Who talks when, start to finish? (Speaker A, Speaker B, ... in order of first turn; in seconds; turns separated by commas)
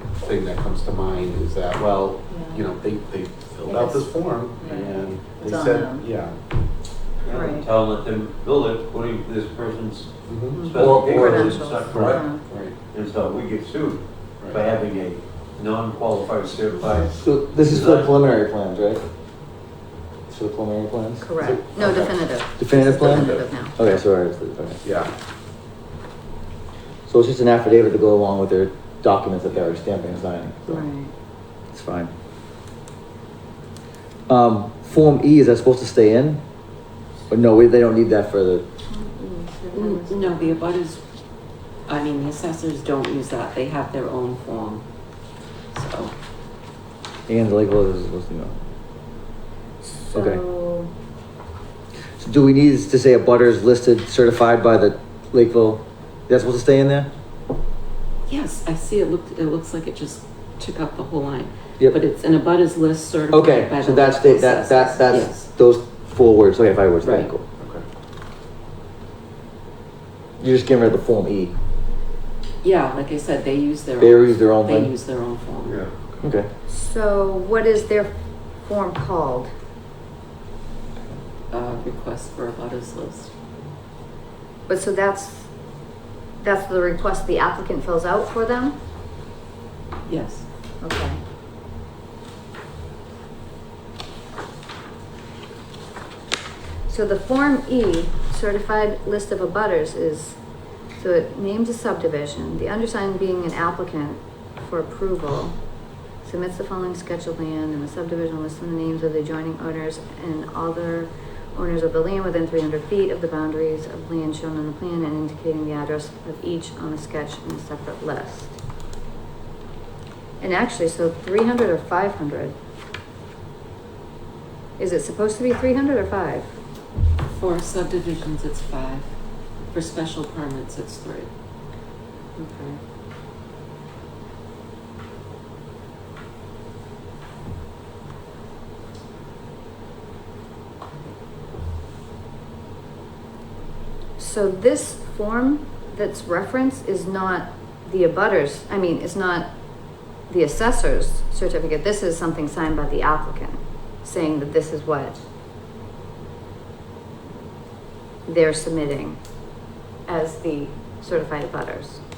Speaker A: 0.2-6.4, Speaker B: 2.3-2.6, Speaker B: 3.6-6.0, Speaker C: 7.2-18.1, Speaker B: 7.3-7.7, Speaker A: 10.3-10.7, Speaker B: 10.5-12.4, Speaker D: 10.7-11.7, Speaker A: 11.9-12.8, Speaker A: 14.4-14.7, Speaker D: 17.2-19.0, Speaker D: 20.3-24.8, Speaker B: 21.2-23.8, Speaker A: 21.4-21.9, Speaker A: 23.0-24.0, Speaker A: 24.8-25.1, Speaker D: 27.1-30.9, Speaker B: 30.7-31.1, Speaker D: 31.7-32.1, Speaker D: 34.3-36.4, Speaker D: 37.3-38.6, Speaker B: 38.9-40.6, Speaker E: 39.7-41.0, Speaker E: 41.9-44.8, Speaker E: 45.7-46.1, Speaker D: 47.3-48.6, Speaker B: 49.8-50.9, Speaker D: 50.0-50.4, Speaker D: 52.2-57.1, Speaker E: 58.3-65.5, Speaker D: 63.3-67.4, Speaker E: 67.0-67.3, Speaker A: 67.6-67.8, Speaker D: 70.4-71.5, Speaker E: 72.6-75.8, Speaker D: 74.0-74.9, Speaker C: 75.6-75.9, Speaker D: 76.2-76.5, Speaker B: 76.7-79.5, Speaker E: 81.5-83.3, Speaker B: 84.7-85.5, Speaker B: 86.4-88.8, Speaker E: 90.1-90.4, Speaker B: 90.8-91.2, Speaker B: 96.9-100.4, Speaker B: 101.0-105.6, Speaker B: 106.2-118.6, Speaker B: 120.4-122.5, Speaker B: 124.8-126.5, Speaker E: 127.3-129.1, Speaker E: 129.7-131.3, Speaker B: 132.4-132.8, Speaker B: 144.2-149.5, Speaker B: 150.3-155.2, Speaker B: 158.3-159.2, Speaker B: 160.1-162.0